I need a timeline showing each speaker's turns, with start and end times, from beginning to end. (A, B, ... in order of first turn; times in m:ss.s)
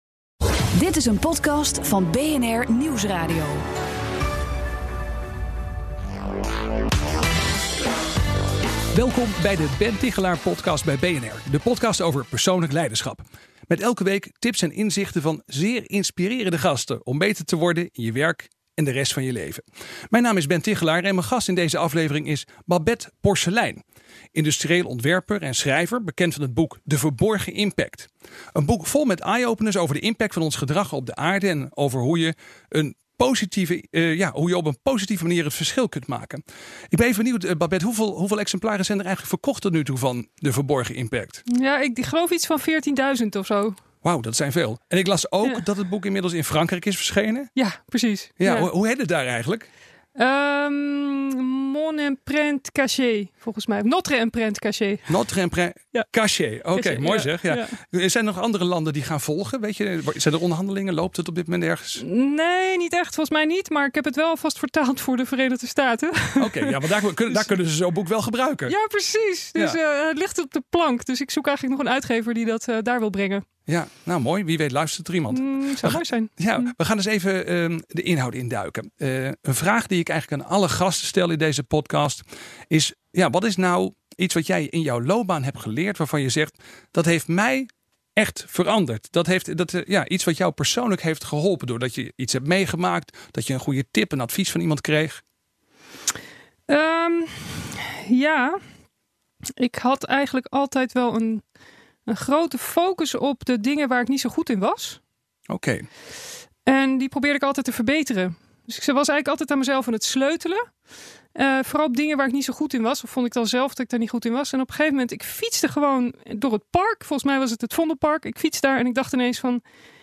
0:00.7-0:03.6 A
0:08.9-0:23.8 B
0:24.3-0:41.4 B
0:41.5-0:43.8 C
0:44.0-0:47.5 B
0:47.6-0:48.7 C
0:48.4-0:49.7 B
0:50.2-0:55.1 C
0:55.1-1:02.0 B
0:56.7-0:57.8 C
1:02.0-1:06.8 C
1:06.4-1:08.7 B
1:08.7-1:13.4 C
1:13.7-1:35.2 B
1:15.3-1:16.7 C
1:36.7-1:38.6 C
1:39.6-1:41.4 C
1:42.0-1:45.0 C
1:45.5-1:45.8 B
1:46.6-1:50.6 C
1:51.3-1:59.6 C